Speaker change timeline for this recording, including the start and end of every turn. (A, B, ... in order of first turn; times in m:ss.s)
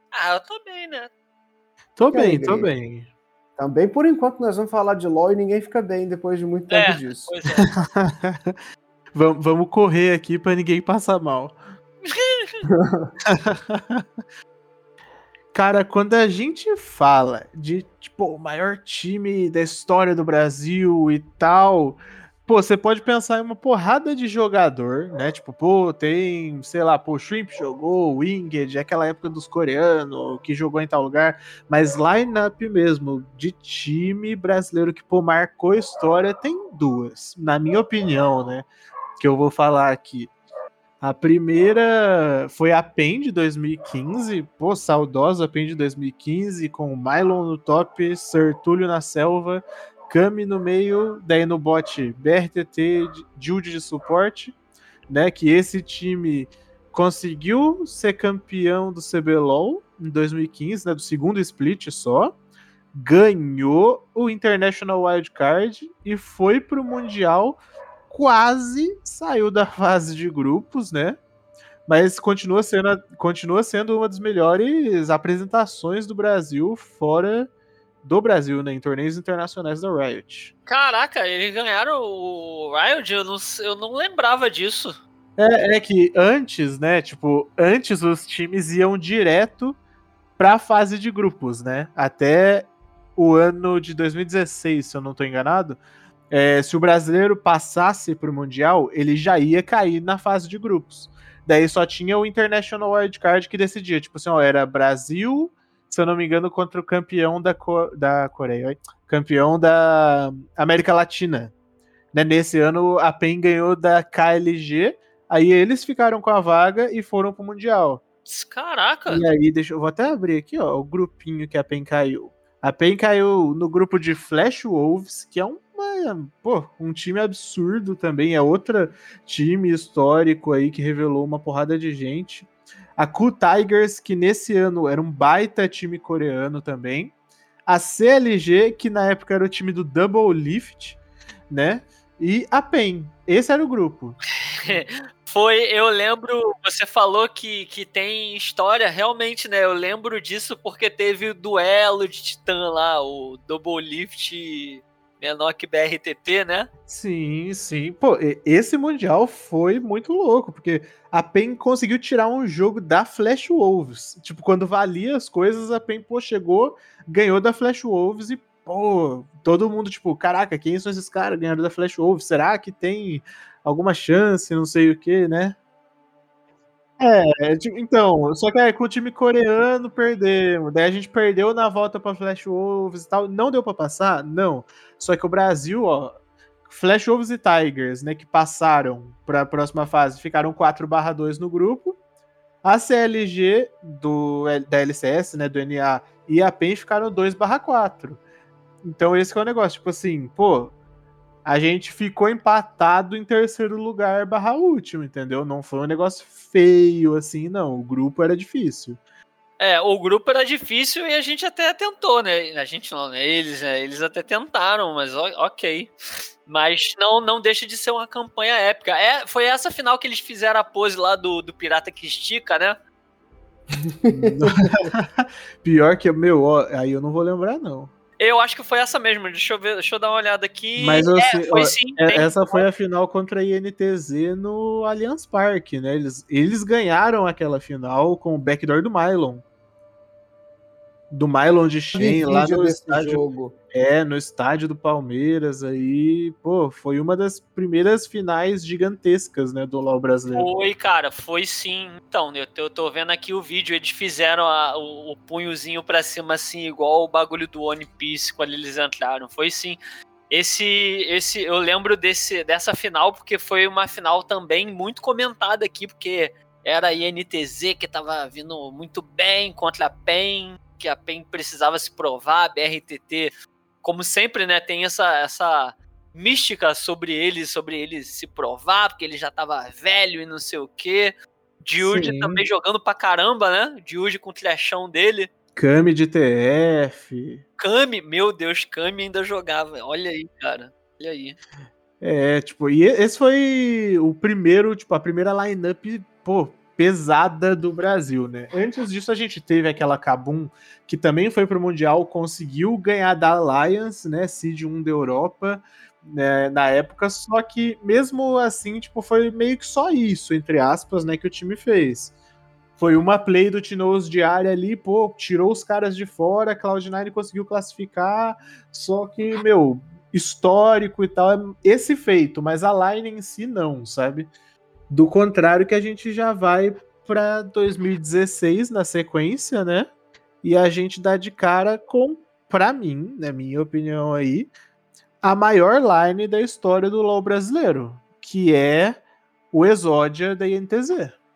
0:00.1-0:01.1 A
0:02.0-0:03.1 B
0:02.1-0:02.7 C
0:03.6-0:07.3 C
0:06.7-0:07.7 A
0:07.5-0:08.6 B
0:09.1-0:11.6 B
0:12.0-0:12.5 A
0:12.7-0:13.1 C
0:13.2-0:14.0 B
0:15.5-0:38.7 B
0:39.2-0:40.3 B
0:41.0-0:54.6 B
0:55.1-1:02.4 B
1:02.9-1:11.2 B
1:11.9-1:17.5 B
1:18.0-1:20.5 B
1:20.7-1:25.0 A
1:25.4-1:29.8 B
1:30.4-1:51.5 B
1:52.1-1:58.0 B
1:58.2-1:59.2 A
1:59.1-2:17.1 B
2:17.7-2:21.0 B
2:21.5-2:24.8 B
2:24.6-2:36.7 A
2:36.9-2:55.6 B
2:57.0-3:12.0 B
3:12.6-3:18.2 B
3:18.8-3:20.7 B
3:21.4-3:29.0 B
3:29.6-3:35.9 A
3:36.4-3:42.8 A
3:44.0-3:44.7 C
3:44.1-3:47.9 B
3:48.2-3:52.6 A
3:50.8-3:59.4 B
4:01.1-4:10.5 B
4:01.9-4:03.6 C
4:10.3-4:19.8 A
4:20.3-4:45.3 A
4:41.8-4:42.4 B
4:45.5-4:47.4 B
4:47.6-4:51.4 A
4:52.0-5:12.1 B
5:12.8-5:24.3 B
5:24.9-5:29.9 B
5:30.4-5:34.5 B
5:35.2-5:39.0 B
5:39.5-5:41.1 B